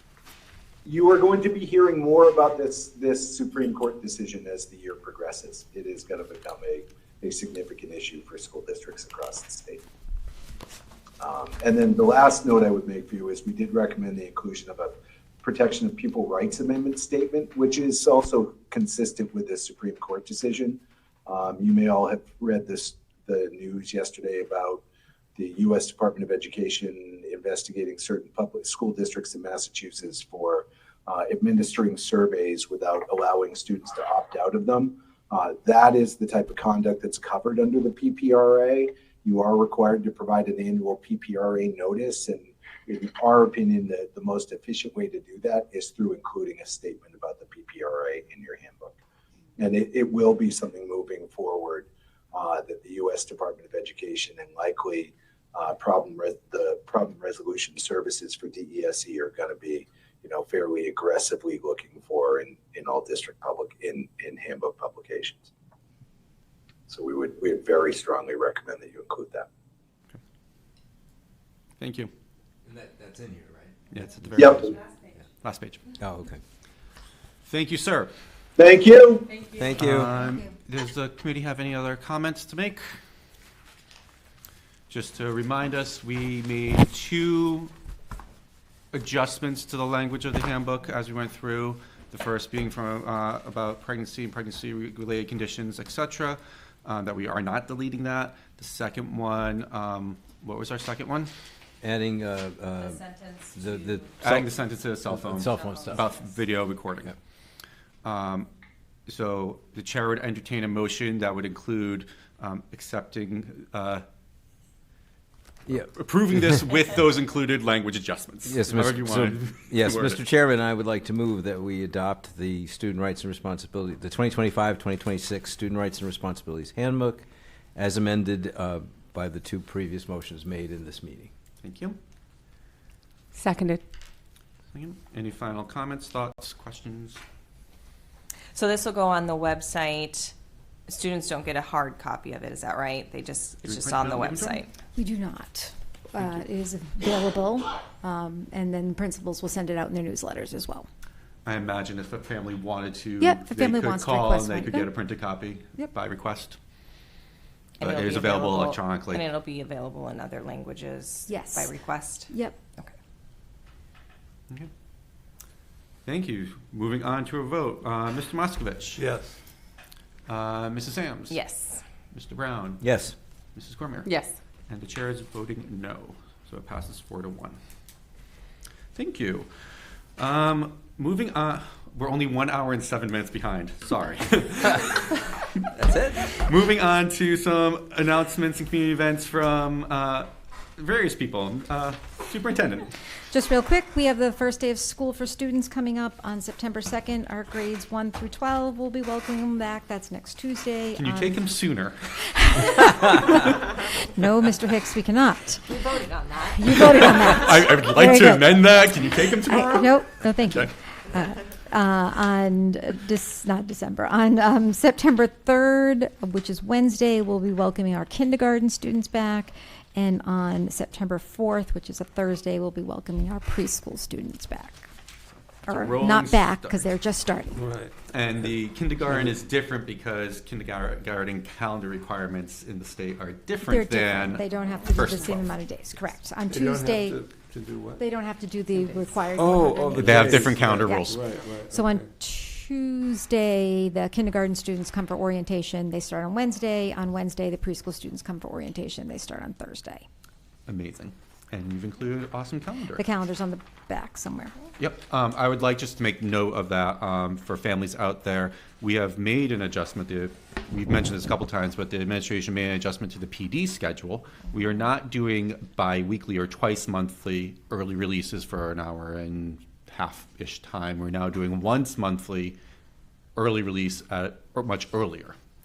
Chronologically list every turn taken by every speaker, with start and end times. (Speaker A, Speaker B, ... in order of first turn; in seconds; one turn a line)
Speaker A: 0.8-9.8
Speaker A: 11.2-24.8
Speaker A: 25.4-49.0
Speaker A: 49.6-65.5
Speaker A: 66.9-69.5
Speaker B: 71.8-72.1
Speaker C: 72.6-73.7
Speaker B: 73.9-74.9
Speaker A: 74.3-74.7
Speaker B: 75.4-75.8
Speaker C: 76.0-76.4
Speaker B: 77.4-78.1
Speaker A: 78.6-79.4
Speaker C: 79.5-80.1
Speaker B: 79.7-82.9
Speaker D: 80.1-80.5
Speaker B: 84.9-87.7
Speaker B: 88.9-101.3
Speaker C: 101.8-103.0
Speaker E: 102.8-104.2
Speaker C: 103.5-104.5
Speaker B: 104.2-107.1
Speaker C: 105.0-106.0
Speaker E: 105.5-106.3
Speaker B: 108.0-108.5
Speaker B: 109.1-114.0
Speaker C: 115.7-115.9
Speaker B: 115.9-120.2
Speaker C: 118.5-131.3
Speaker B: 131.6-131.9
Speaker B: 134.7-137.2
Speaker E: 138.5-140.3
Speaker E: 140.9-144.7
Speaker B: 143.6-144.6
Speaker D: 144.9-150.9
Speaker B: 151.4-156.6
Speaker D: 153.2-154.9
Speaker E: 157.8-162.3
Speaker B: 157.8-159.3
Speaker D: 161.3-162.6
Speaker B: 166.0-169.1
Speaker F: 169.0-169.3
Speaker B: 170.3-171.4
Speaker E: 171.3-171.8
Speaker B: 172.1-172.9
Speaker C: 172.8-173.1
Speaker B: 173.5-177.6
Speaker B: 178.9-179.5
Speaker B: 180.2-185.2
Speaker C: 185.7-186.4
Speaker B: 186.3-192.9
Speaker D: 193.3-201.4
Speaker B: 200.9-202.0
Speaker D: 202.2-205.8
Speaker E: 205.7-207.3
Speaker D: 206.4-224.9
Speaker B: 206.8-210.7
Speaker B: 225.7-226.8
Speaker D: 225.7-227.6
Speaker F: 227.5-227.9
Speaker B: 228.1-235.5
Speaker D: 233.6-237.3
Speaker F: 236.5-238.0
Speaker D: 238.0-250.0
Speaker F: 239.7-242.1
Speaker B: 240.0-241.3
Speaker B: 250.7-253.0
Speaker D: 252.9-254.6
Speaker B: 254.8-272.6
Speaker B: 273.4-275.3